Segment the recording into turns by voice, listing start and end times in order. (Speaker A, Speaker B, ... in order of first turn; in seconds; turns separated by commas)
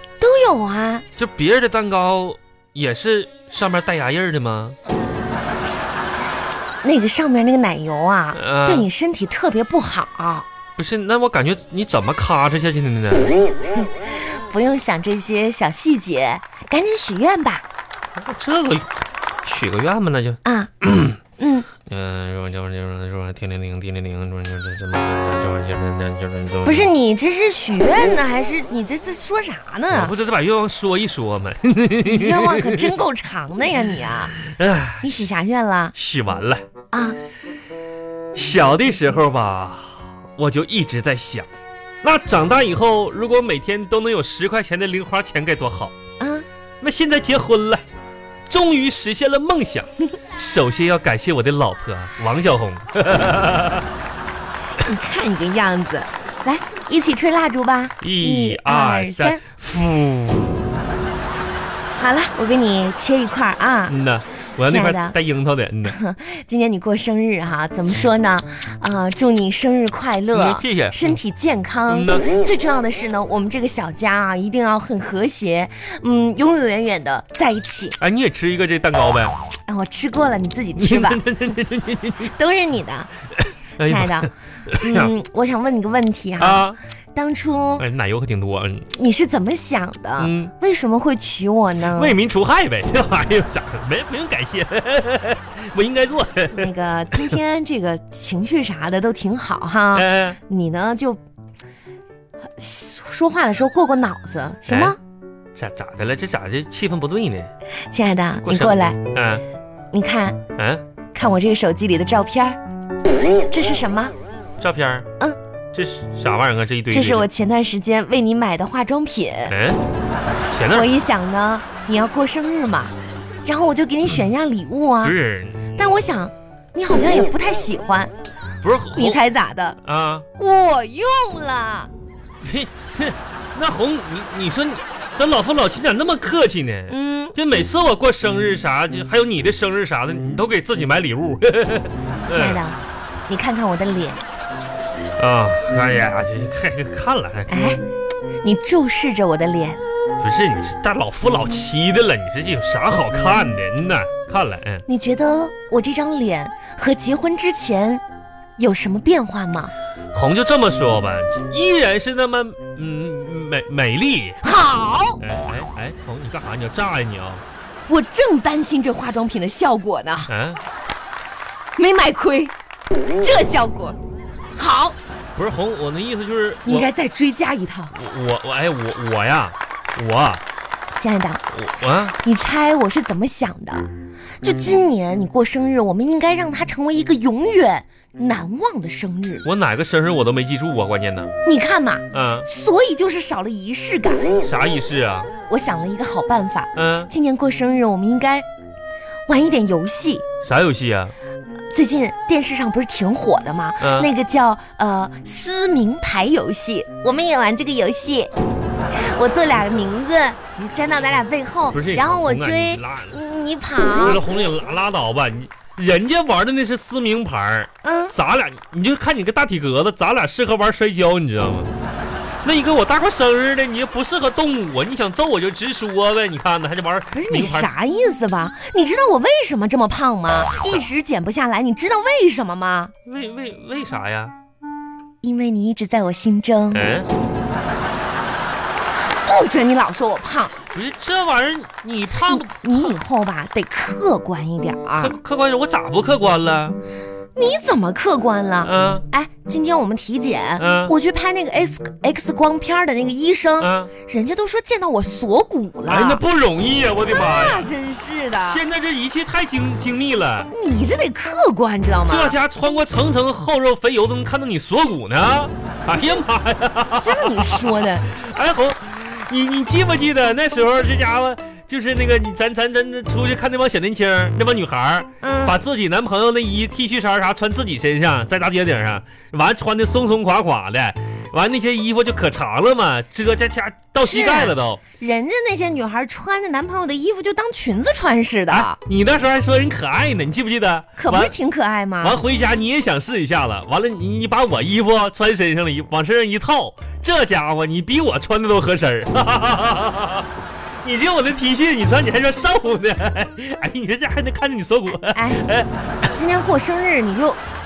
Speaker A: 0.2-1.0, Speaker B: 1.1-4.8, Speaker A: 6.8-10.5, Speaker B: 8.3-8.9, Speaker B: 10.8-13.3, Speaker A: 13.7-17.6, Speaker B: 18.2-18.9, Speaker B: 19.4-21.2, Speaker A: 20.4-20.8, Speaker A: 21.4-21.7, Speaker B: 21.9-26.9, Speaker A: 26.6-30.1, Speaker B: 29.9-33.0, Speaker A: 32.0-34.4, Speaker B: 34.4-35.2, Speaker A: 35.0-35.9, Speaker B: 36.0-36.6, Speaker A: 36.9-37.2, Speaker B: 38.3-41.5, Speaker B: 42.0-45.9, Speaker A: 46.2-46.5, Speaker B: 46.8-47.8, Speaker B: 48.5-53.8, Speaker A: 54.8-59.4, Speaker B: 58.0-60.7, Speaker A: 62.0-64.0, Speaker B: 63.9-66.0, Speaker A: 64.6-65.2, Speaker A: 65.8-78.0, Speaker B: 70.3-71.2, Speaker B: 71.9-72.2, Speaker B: 78.0-79.4, Speaker A: 79.7-81.2, Speaker B: 80.8-82.3, Speaker A: 82.2-83.1, Speaker B: 83.8-85.1, Speaker A: 83.8-87.8, Speaker B: 86.4-86.8, Speaker B: 87.8-88.9, Speaker A: 88.9-92.2, Speaker B: 90.2-90.5, Speaker B: 91.9-97.4, Speaker A: 96.5-101.2, Speaker B: 99.9-100.4, Speaker A: 102.6-105.0, Speaker B: 104.7-105.0, Speaker B: 105.5-107.5, Speaker A: 107.9-109.0, Speaker B: 108.4-109.4, Speaker A: 109.9-110.4, Speaker B: 110.6-110.8, Speaker A: 111.1-112.6, Speaker A: 113.5-114.1, Speaker B: 114.6-115.1, Speaker B: 115.7-117.3, Speaker A: 116.9-119.5, Speaker B: 119.5-119.8, Speaker B: 120.5-120.9, Speaker A: 120.7-122.9, Speaker A: 123.4-125.1, Speaker B: 125.0-125.8, Speaker A: 125.8-128.1, Speaker B: 128.6-129.2, Speaker A: 128.9-129.8, Speaker B: 129.8-130.3, Speaker A: 130.3-131.9, Speaker B: 132.4-142.6, Speaker A: 136.9-137.3, Speaker A: 142.3-144.2, Speaker B: 145.2-147.8, Speaker A: 147.5-147.8, Speaker A: 148.4-149.8, Speaker B: 150.2-154.8, Speaker A: 154.9-158.0, Speaker A: 158.6-159.7, Speaker B: 160.1-164.4, Speaker A: 164.4-165.2, Speaker B: 165.2-167.4, Speaker A: 167.9-170.3, Speaker B: 170.3-170.6, Speaker A: 171.8-172.5, Speaker A: 173.1-174.0, Speaker A: 174.5-175.0, Speaker B: 175.3-176.9, Speaker A: 176.7-177.9, Speaker B: 177.9-180.4, Speaker A: 180.9-181.4, Speaker B: 181.5-182.2, Speaker A: 182.2-183.9, Speaker A: 184.4-189.4, Speaker B: 189.4-191.3, Speaker A: 191.4-194.3, Speaker B: 192.1-192.5, Speaker B: 194.4-195.3, Speaker A: 195.5-198.4, Speaker B: 196.7-197.1, Speaker A: 199.3-200.2, Speaker B: 200.4-201.1, Speaker A: 201.7-208.3, Speaker B: 203.8-204.1, Speaker A: 208.9-214.2, Speaker B: 211.7-213.2, Speaker B: 213.9-221.7, Speaker A: 217.8-218.1, Speaker B: 222.4-227.7, Speaker A: 227.1-232.9, Speaker B: 233.1-234.3, Speaker A: 235.2-236.9, Speaker B: 236.7-237.1, Speaker A: 239.2-240.6, Speaker B: 240.7-242.9, Speaker A: 242.1-245.1, Speaker B: 245.0-246.8, Speaker A: 247.3-256.2, Speaker B: 248.6-249.1, Speaker B: 250.6-250.9, Speaker B: 253.6-253.9, Speaker B: 255.9-257.6, Speaker A: 257.0-258.6, Speaker B: 258.4-260.5, Speaker A: 260.5-262.4, Speaker B: 262.0-284.8, Speaker A: 265.9-266.2, Speaker A: 266.9-268.1, Speaker A: 275.2-275.6, Speaker A: 284.0-288.8, Speaker B: 288.5-291.3, Speaker A: 291.0-292.2, Speaker B: 292.0-300.3, Speaker B: 300.8-306.1, Speaker A: 305.1-305.4, Speaker A: 306.1-307.4